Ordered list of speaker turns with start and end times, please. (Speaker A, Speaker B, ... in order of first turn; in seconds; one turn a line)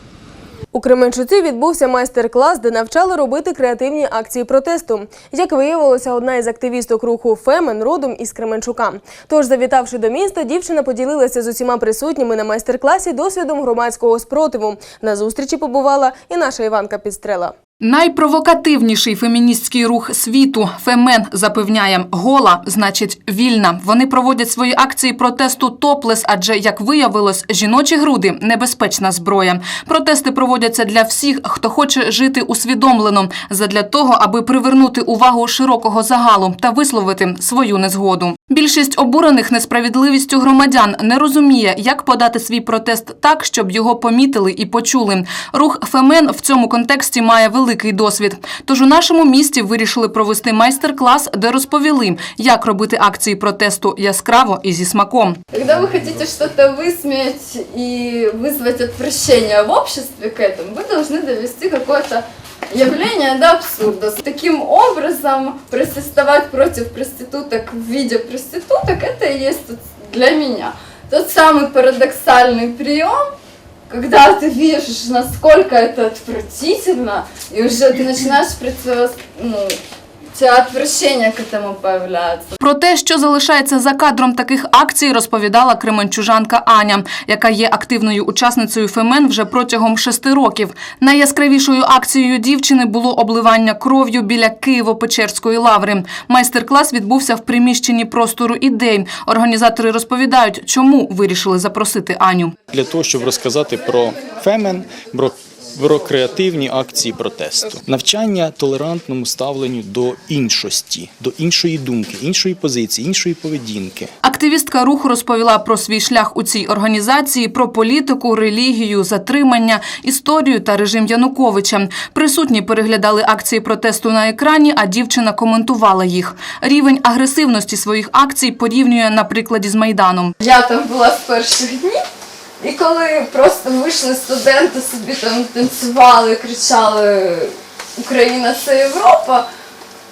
Speaker A: 0.7-17.5
Speaker B: 17.8-55.4
Speaker C: 55.5-73.3
Speaker C: 73.9-79.8
Speaker C: 80.3-82.5
Speaker B: 82.6-102.5
Speaker D: 102.7-114.1
Speaker B: 114.2-130.3
Speaker C: 130.4-132.0
Speaker C: 132.6-139.4